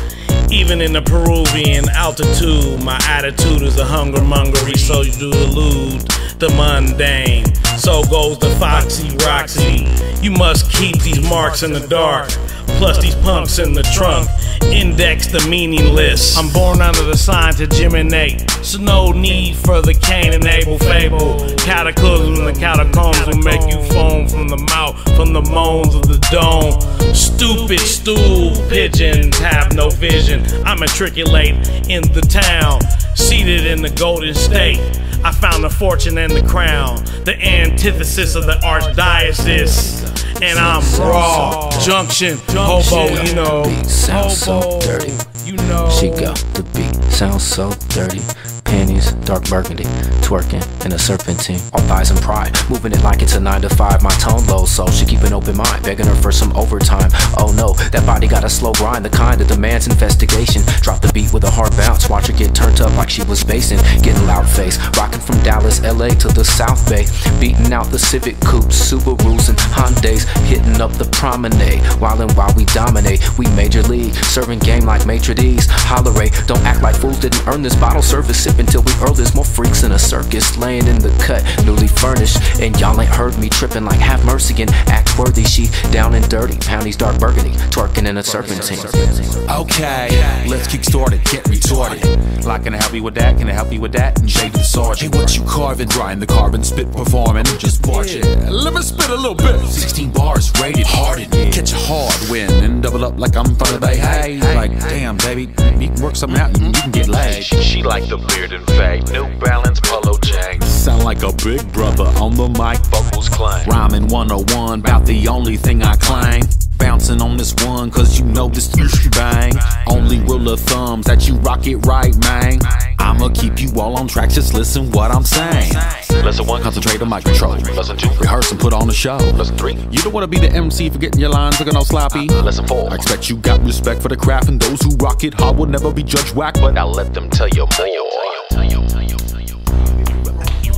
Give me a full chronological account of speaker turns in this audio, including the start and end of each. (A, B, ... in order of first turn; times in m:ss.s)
0:00.5-0:44.9 A
0:40.8-0:41.8 B
0:42.7-0:45.2 B
0:45.8-0:46.3 A
0:45.8-1:29.4 B
1:29.5-1:47.4 C
1:37.7-1:38.1 D
1:44.6-1:44.9 D
1:46.3-1:46.5 D
1:47.1-1:50.8 D
1:50.7-1:52.8 C
1:52.9-1:54.0 D
1:53.8-2:05.8 C
1:55.9-1:56.4 D
1:59.6-2:00.0 D
2:05.3-2:08.7 D
2:06.6-2:07.7 C
2:08.2-2:09.3 C
2:09.4-2:09.7 D
2:09.9-2:12.3 C
2:12.4-2:13.1 D
2:12.9-2:16.5 C
2:16.6-2:18.5 D